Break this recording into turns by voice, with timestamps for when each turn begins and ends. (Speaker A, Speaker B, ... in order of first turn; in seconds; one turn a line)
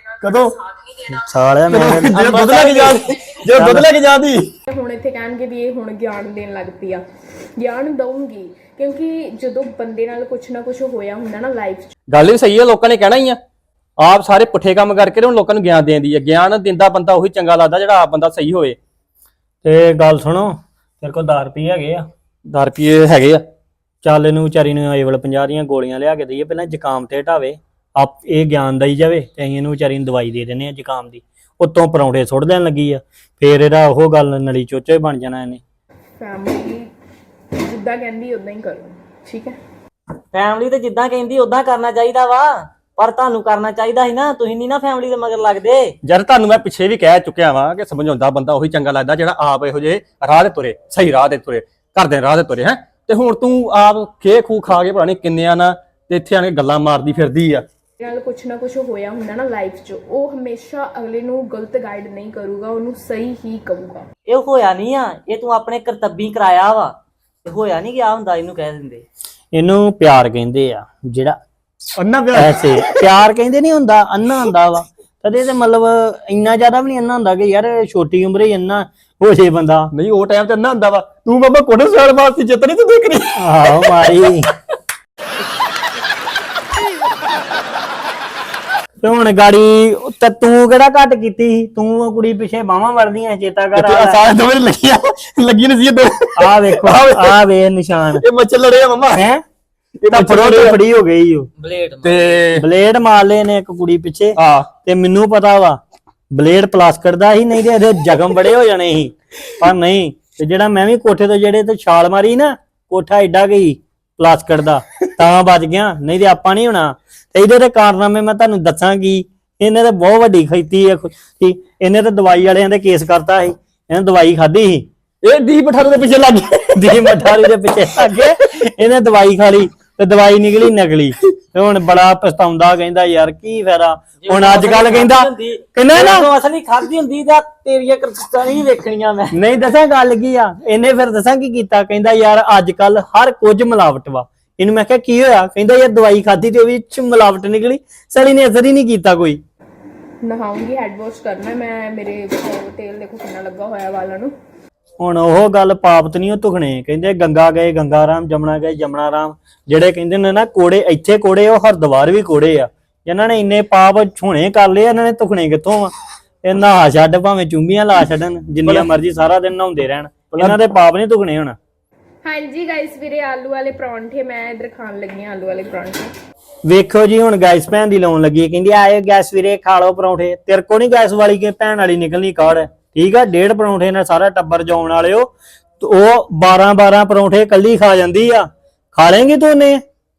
Speaker A: 0.2-1.0
Speaker B: 1.1-2.7
Speaker A: 1.7-4.5
Speaker C: 2.2-3.0
Speaker B: 3.5-3.9
Speaker D: 4.7-7.0
Speaker D: 7.6-11.8
Speaker A: 12.1-13.4
Speaker A: 14.0-18.8
Speaker B: 19.6-22.0
Speaker A: 22.5-23.4
Speaker B: 24.0-35.6
Speaker D: 36.2-36.9
Speaker D: 37.5-39.5
Speaker C: 40.3-45.9
Speaker A: 46.0-57.6
Speaker D: 58.0-64.0
Speaker C: 64.3-69.0
Speaker B: 69.5-71.4
Speaker A: 72.0-73.0
Speaker B: 72.4-79.9
Speaker A: 79.9-83.4
Speaker B: 83.4-84.5
Speaker B: 89.0-94.2
Speaker A: 93.8-97.4
Speaker B: 96.4-98.2
Speaker A: 98.2-99.2
Speaker B: 99.1-99.4
Speaker A: 100.0-100.8
Speaker B: 100.1-101.5
Speaker C: 101.6-102.4
Speaker A: 102.0-102.6
Speaker B: 102.5-105.8
Speaker A: 104.4-104.7
Speaker B: 106.3-124.9
Speaker A: 125.2-127.3
Speaker B: 126.8-136.3
Speaker C: 134.2-139.3
Speaker B: 139.3-149.4
Speaker D: 150.2-154.3
Speaker B: 155.0-165.9
Speaker B: 166.4-171.6
Speaker D: 172.4-176.0
Speaker B: 176.7-189.8